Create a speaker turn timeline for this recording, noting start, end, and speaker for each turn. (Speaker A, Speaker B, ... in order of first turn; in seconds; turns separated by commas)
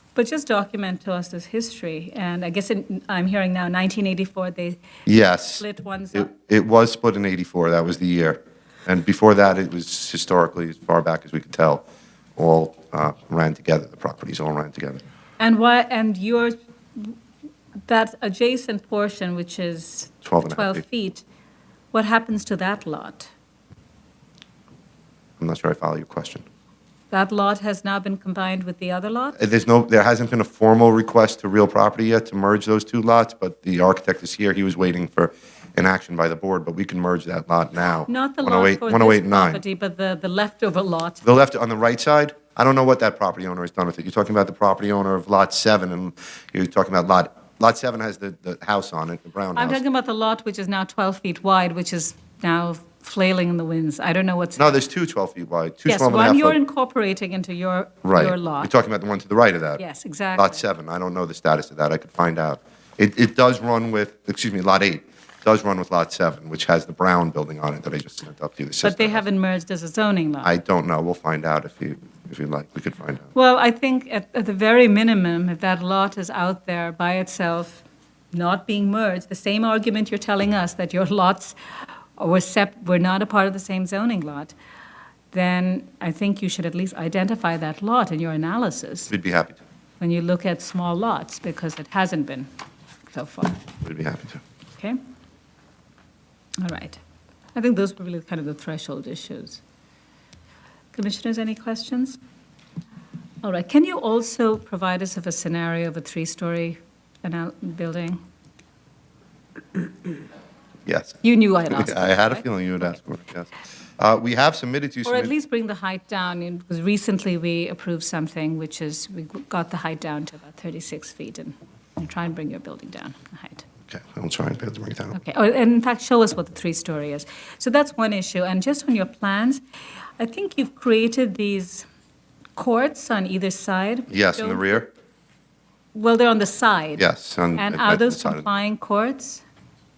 Speaker A: 0.1-4.8, Speaker B: 5.1-11.8, Speaker A: 5.6-6.3, Speaker B: 12.4-15.0, Speaker A: 15.4-17.1, Speaker A: 17.9-21.2, Speaker B: 20.2-20.8, Speaker A: 21.9-23.3, Speaker B: 25.4-26.4, Speaker A: 27.1-29.4, Speaker B: 29.4-39.6, Speaker A: 38.1-41.2, Speaker B: 41.2-49.8, Speaker A: 49.5-54.8, Speaker B: 54.6-56.6, Speaker A: 55.9-58.7, Speaker B: 58.0-59.8, Speaker A: 59.8-60.6, Speaker B: 60.4-69.2, Speaker A: 68.8-70.5, Speaker B: 70.4-73.3, Speaker A: 73.3-81.6, Speaker A: 82.2-84.5, Speaker A: 85.3-89.1, Speaker B: 89.1-89.6, Speaker A: 90.0-92.5, Speaker A: 93.1-93.6, Speaker B: 93.8-94.4, Speaker A: 96.6-97.0, Speaker A: 97.5-99.6, Speaker A: 100.9-102.2, Speaker A: 103.4-108.2, Speaker B: 110.9-111.2, Speaker A: 111.2-112.5, Speaker B: 111.7-115.3, Speaker A: 115.1-123.6, Speaker B: 123.9-125.2, Speaker A: 125.1-129.6, Speaker A: 130.2-131.9, Speaker A: 132.6-134.7, Speaker B: 134.1-134.9, Speaker A: 135.9-137.1, Speaker B: 137.0-138.5, Speaker A: 137.6-139.4